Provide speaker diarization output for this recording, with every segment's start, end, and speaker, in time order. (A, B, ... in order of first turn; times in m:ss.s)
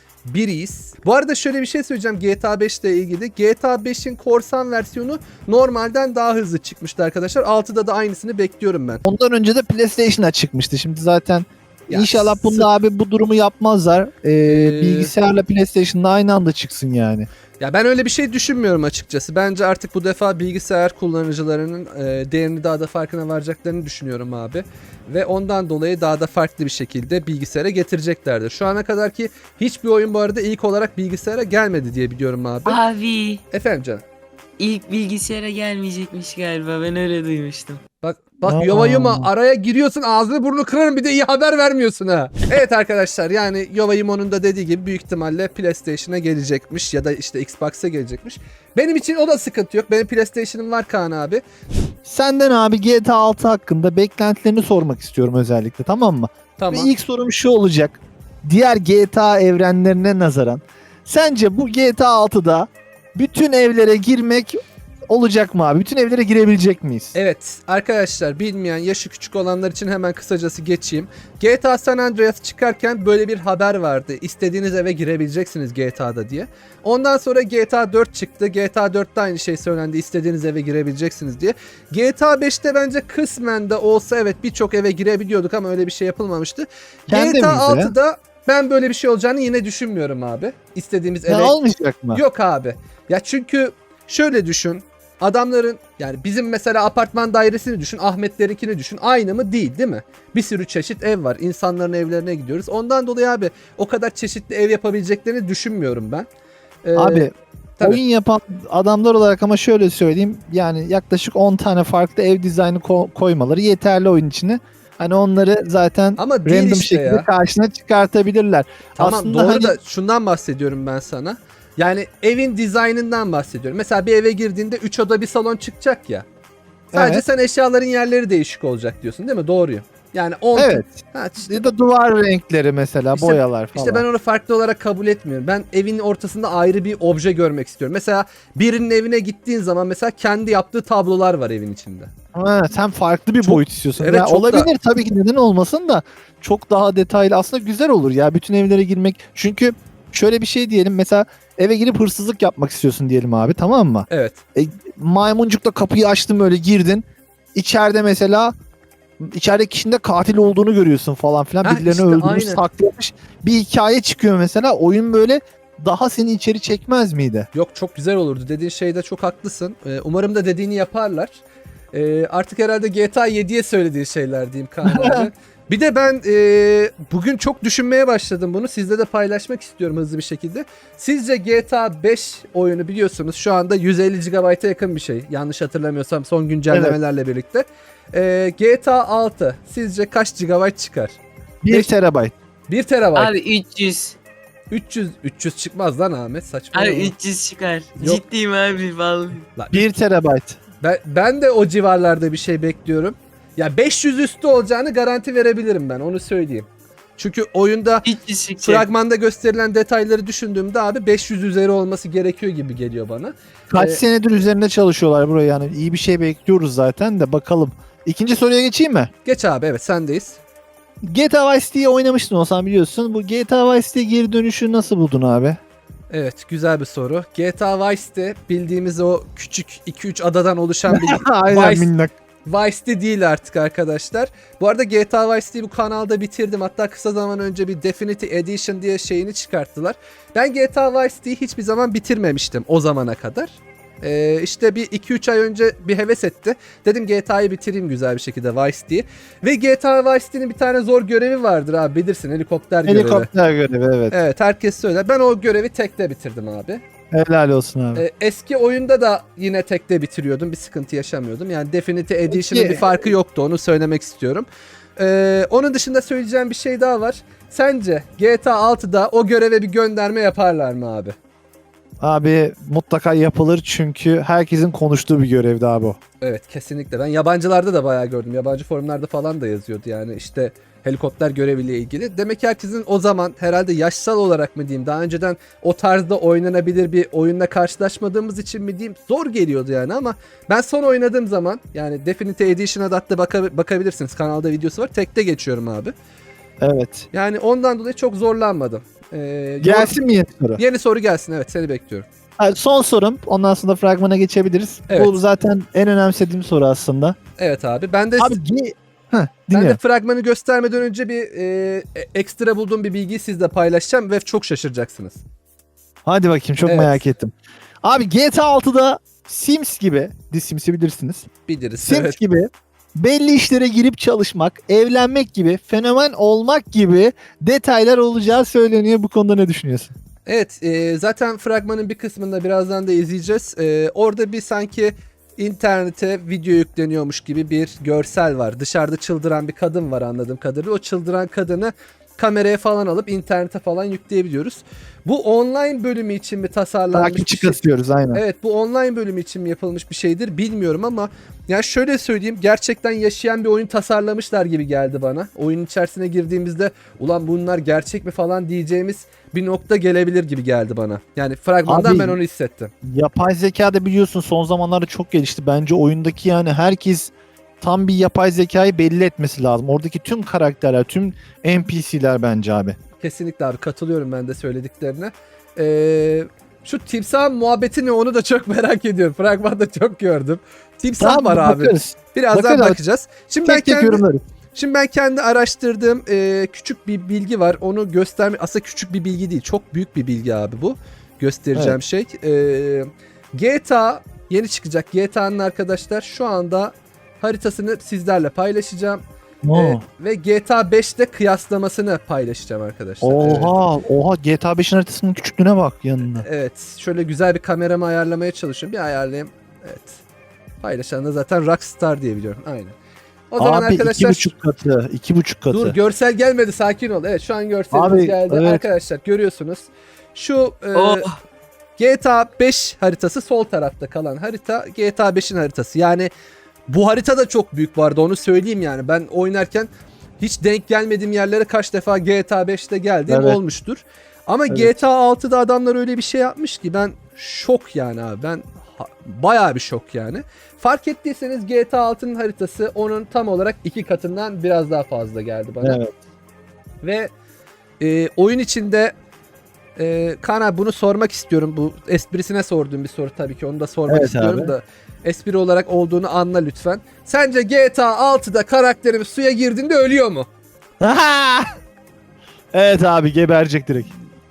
0:00.2-0:09.0 A
0:09.0-0:17.3 B
0:11.9-0:12.7 A
0:14.4-0:15.1 A
0:17.6-0:32.8 A
0:32.6-0:33.4 C
0:33.5-0:34.0 A
0:34.6-0:37.8 C
0:38.0-0:51.4 A
0:38.5-0:39.3 B
0:52.0-1:07.1 B
0:56.6-0:56.9 A
1:07.1-1:31.6 A
1:27.1-1:27.9 B
1:31.3-1:32.2 B
1:32.1-1:46.3 A
1:46.8-1:47.3 A
1:47.0-1:59.8 B
1:56.2-1:57.3 A
1:58.9-2:06.2 A
2:06.9-2:11.7 A
2:06.9-2:07.2 B
2:10.6-2:14.0 B
2:13.1-2:22.1 A
2:22.3-2:38.5 B
2:23.4-2:24.7 A
2:34.1-2:34.4 A
2:39.2-2:47.5 B
2:41.6-2:42.6 A
2:47.5-2:51.4 A
2:51.9-3:11.2 A
2:54.9-2:55.3 B
3:06.7-3:07.0 B
3:11.6-3:12.3 B
3:12.7-3:13.3 A
3:13.1-3:14.2 C
3:14.7-3:17.1 A
3:16.7-3:19.5 C
3:19.6-3:19.9 A
3:19.7-3:20.6 B
3:20.8-3:28.1 A
3:28.0-3:28.8 C
3:28.6-3:34.0 A
3:33.7-3:39.1 B
3:39.2-3:40.4 A
3:41.0-3:45.6 B
3:46.1-3:51.9 A
3:50.9-3:52.1 B
3:52.4-4:13.3 A
4:12.8-4:14.2 B
4:14.1-4:16.8 A
4:17.1-4:18.0 B
4:17.9-4:31.2 A
4:22.3-4:23.1 B
4:32.0-4:36.0 B
4:36.2-4:55.9 A
4:56.6-4:57.1 B
4:57.1-5:00.0 A
4:59.6-5:00.6 B
5:00.6-5:02.0 A
5:02.4-5:07.2 B
5:04.9-5:05.2 A
5:07.4-5:08.4 A
5:08.2-5:09.8 B
5:09.5-5:15.2 A
5:16.0-5:21.3 B
5:16.6-5:17.0 A
5:21.5-5:22.2 A
5:21.9-5:29.9 B
5:30.2-6:02.7 A
5:46.9-5:48.2 B
6:01.7-6:02.2 B
6:02.8-6:12.8 B
6:13.0-6:43.5 A
6:21.0-6:22.8 B
6:23.4-6:24.2 B
6:39.4-6:39.8 B
6:43.0-6:46.2 B
6:46.2-6:50.0 A
6:50.6-6:52.7 A
6:53.3-6:54.3 A
6:53.4-6:55.7 B
6:55.5-7:01.1 A
6:57.7-6:58.6 B
7:00.7-7:01.2 C
7:01.8-7:06.1 A
7:06.7-7:09.7 A
7:10.2-7:25.8 A
7:13.1-7:13.4 B
7:14.5-7:14.8 B
7:25.6-7:25.9 B
7:26.8-7:27.1 A
7:27.8-7:28.9 A
7:29.8-7:40.3 A
7:33.9-7:34.5 B
7:40.8-7:41.6 B
7:42.5-7:43.9 B